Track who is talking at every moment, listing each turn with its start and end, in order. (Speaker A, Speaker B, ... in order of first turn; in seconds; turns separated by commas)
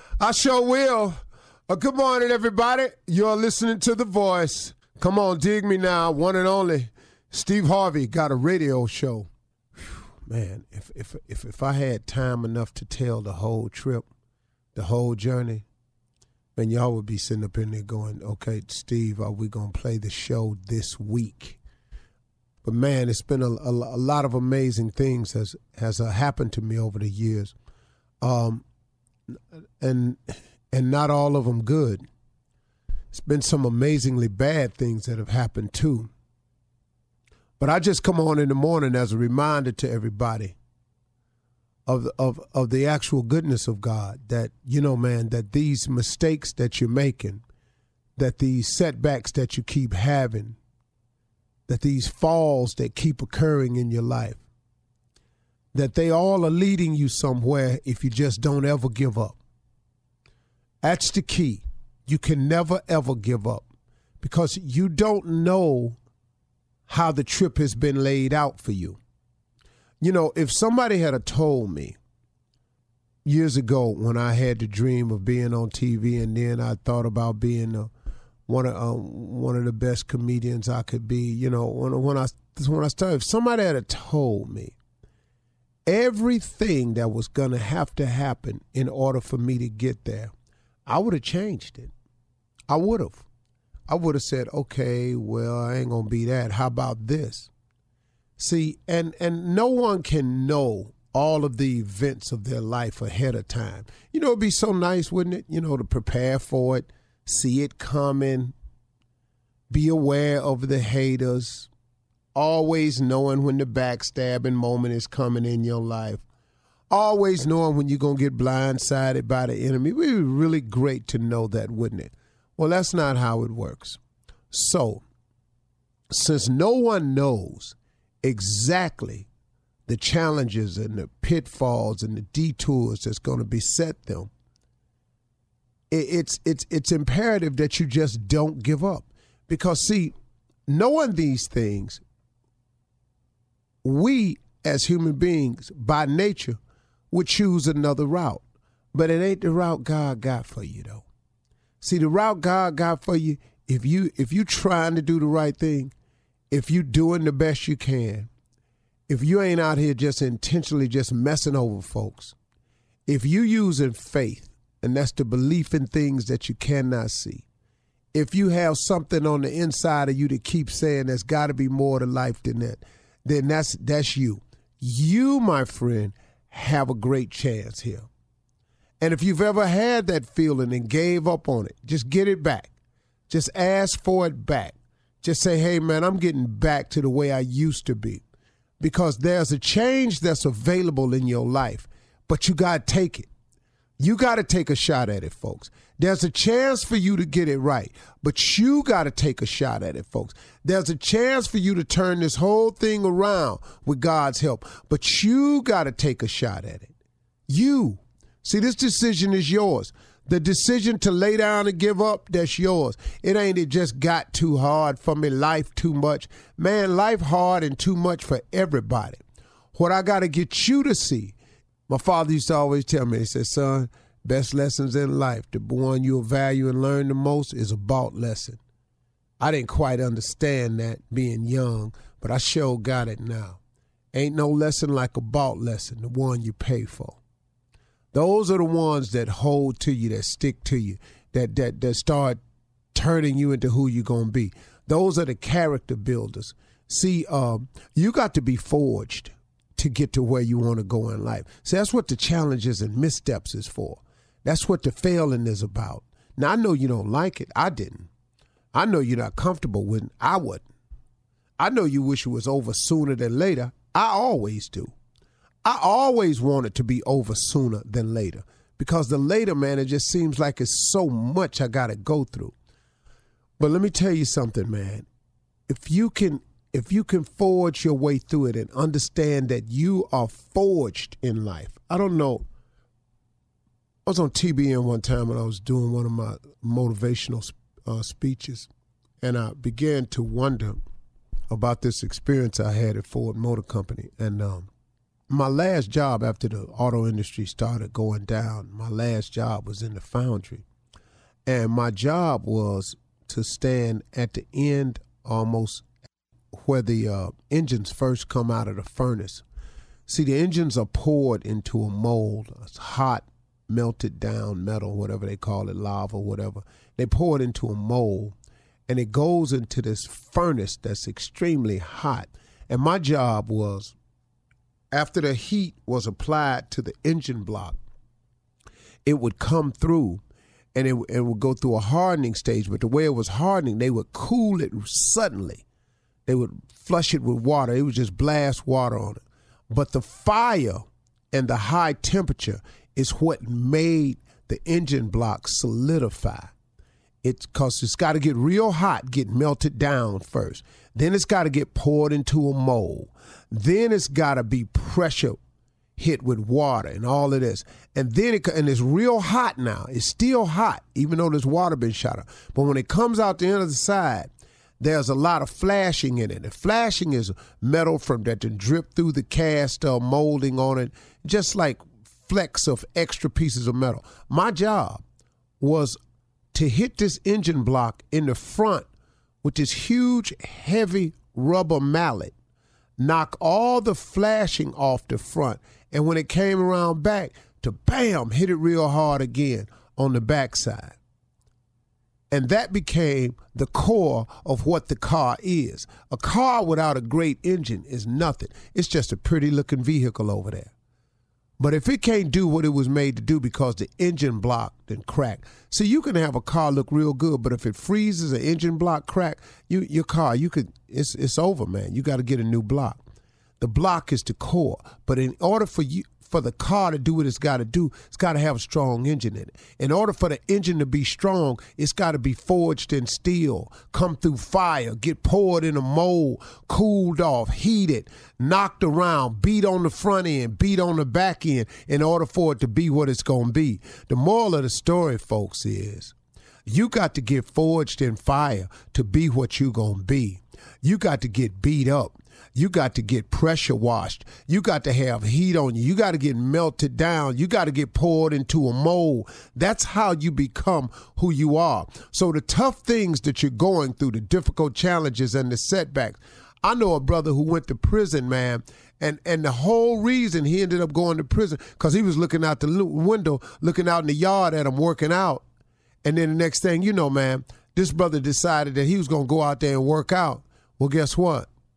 Speaker A: 0.2-1.2, Speaker A: 1.7-14.1, Speaker A: 14.7-15.7, Speaker A: 16.6-21.6, Speaker A: 22.6-27.5, Speaker A: 28.2-28.6, Speaker A: 29.8-32.0, Speaker A: 33.1-36.1, Speaker A: 37.6-40.5, Speaker A: 41.9-47.4, Speaker A: 48.2-50.6, Speaker A: 51.7-54.4, Speaker A: 55.7-59.4, Speaker A: 60.8-63.6, Speaker A: 64.2-66.0, Speaker A: 66.9-69.0, Speaker A: 70.0-72.0, Speaker A: 73.2-77.9, Speaker A: 78.5-84.8, Speaker A: 85.9-90.3, Speaker A: 90.8-91.9, Speaker A: 92.7-93.2, Speaker A: 93.9-97.5, Speaker A: 98.4-108.5, Speaker A: 109.7-111.7, Speaker A: 112.3-116.2, Speaker A: 116.9-124.0, Speaker A: 124.5-125.0, Speaker A: 126.1-129.3, Speaker A: 129.9-134.3, Speaker A: 135.9-140.1, Speaker A: 140.7-142.0, Speaker A: 143.8-146.6, Speaker A: 147.1-151.0, Speaker A: 151.8-155.9, Speaker A: 156.5-158.3, Speaker A: 159.1-162.3, Speaker A: 163.1-167.4, Speaker A: 168.1-178.1, Speaker A: 179.0-182.7, Speaker A: 183.3-188.2, Speaker A: 188.8-193.3, Speaker A: 194.0-206.9, Speaker A: 207.5-219.2, Speaker A: 219.7-221.3, Speaker A: 221.9-228.6, Speaker A: 229.4-233.6, Speaker A: 234.1-237.2, Speaker A: 238.1-242.4, Speaker A: 242.9-258.1, Speaker A: 258.7-260.6, Speaker A: 261.6-264.9, Speaker A: 265.6-272.5, Speaker A: 273.6-275.1, Speaker A: 275.7-282.4, Speaker A: 284.1-288.7, Speaker A: 289.2-290.8, Speaker A: 291.5-294.7, Speaker A: 295.3-300.6, Speaker A: 301.4-305.8, Speaker A: 306.5-309.4, Speaker A: 310.1-318.4, Speaker A: 318.9-323.9, Speaker A: 324.9-327.8, Speaker A: 329.0-330.2, Speaker A: 330.7-335.6, Speaker A: 336.2-346.5, Speaker A: 347.2-355.4, Speaker A: 356.0-375.0, Speaker A: 375.6-376.0, Speaker A: 376.5-378.9, Speaker A: 379.4-382.3, Speaker A: 383.0-391.0, Speaker A: 392.3-400.7, Speaker A: 401.6-413.0, Speaker A: 413.6-436.1, Speaker A: 436.7-465.4, Speaker A: 466.0-471.5